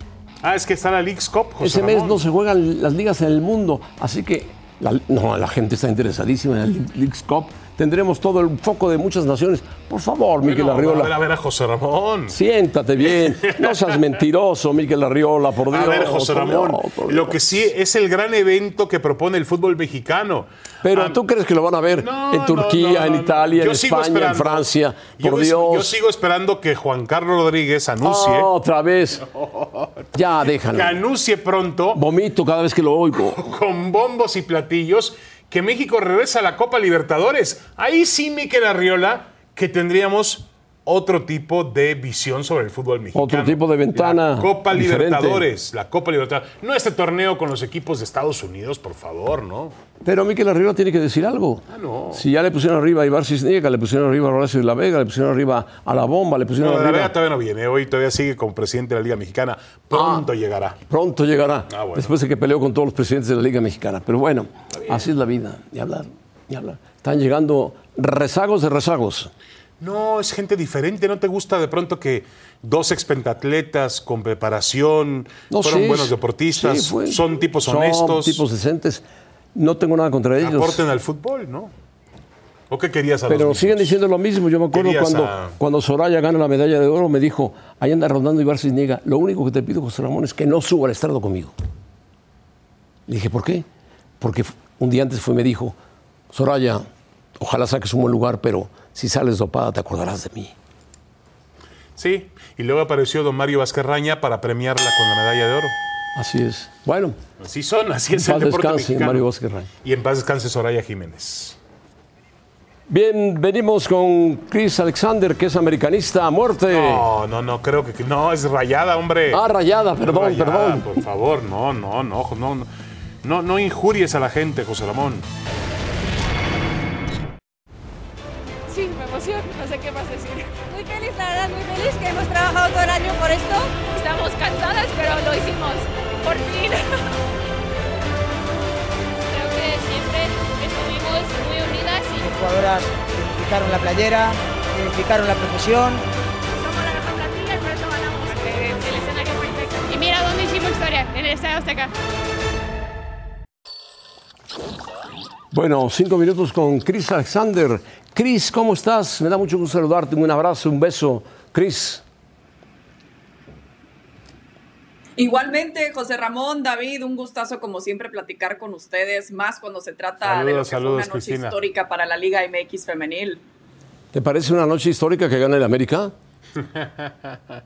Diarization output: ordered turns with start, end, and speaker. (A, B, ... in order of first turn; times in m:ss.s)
0:00.4-0:02.2 A
0:01.6-0:11.1 B
0:10.4-0:12.4 A
0:12.3-0:17.4 B
0:13.4-0:13.8 A
0:15.7-0:21.2 A
0:20.8-0:26.0 B
0:22.0-0:28.5 A
0:28.0-0:29.2 B
0:29.3-0:32.0 A
0:30.1-0:31.0 B
0:31.9-0:33.4 B
0:33.2-0:49.7 A
0:43.1-0:45.5 B
0:50.0-0:57.1 B
0:51.7-0:52.2 A
0:56.6-1:00.8 A
0:59.9-1:00.3 B
1:00.9-1:09.3 B
1:01.7-1:02.1 A
1:09.8-1:18.4 A
1:15.5-1:19.0 B
1:19.5-1:20.8 B
1:20.4-1:21.7 A
1:22.7-1:24.0 A
1:23.3-1:31.5 B
1:24.7-1:25.5 A
1:33.1-1:33.6 B
1:34.2-1:35.8 B
1:36.3-1:36.8 B
1:37.4-1:40.5 B
1:42.0-1:45.7 A
1:46.1-1:47.2 B
1:47.4-1:49.2 A
1:48.1-1:49.7 B
1:49.8-1:51.6 A
1:52.9-1:57.1 B
1:56.7-1:59.4 A
1:59.3-2:01.0 B
2:00.0-2:02.7 A
2:03.2-2:05.2 A
2:08.7-2:17.0 C
2:19.2-2:22.3 C
2:22.2-2:26.0 D
2:26.6-2:31.9 C
2:35.5-2:42.0 B
2:45.2-2:53.4 E
2:50.2-2:51.6 A
2:54.1-2:56.1 B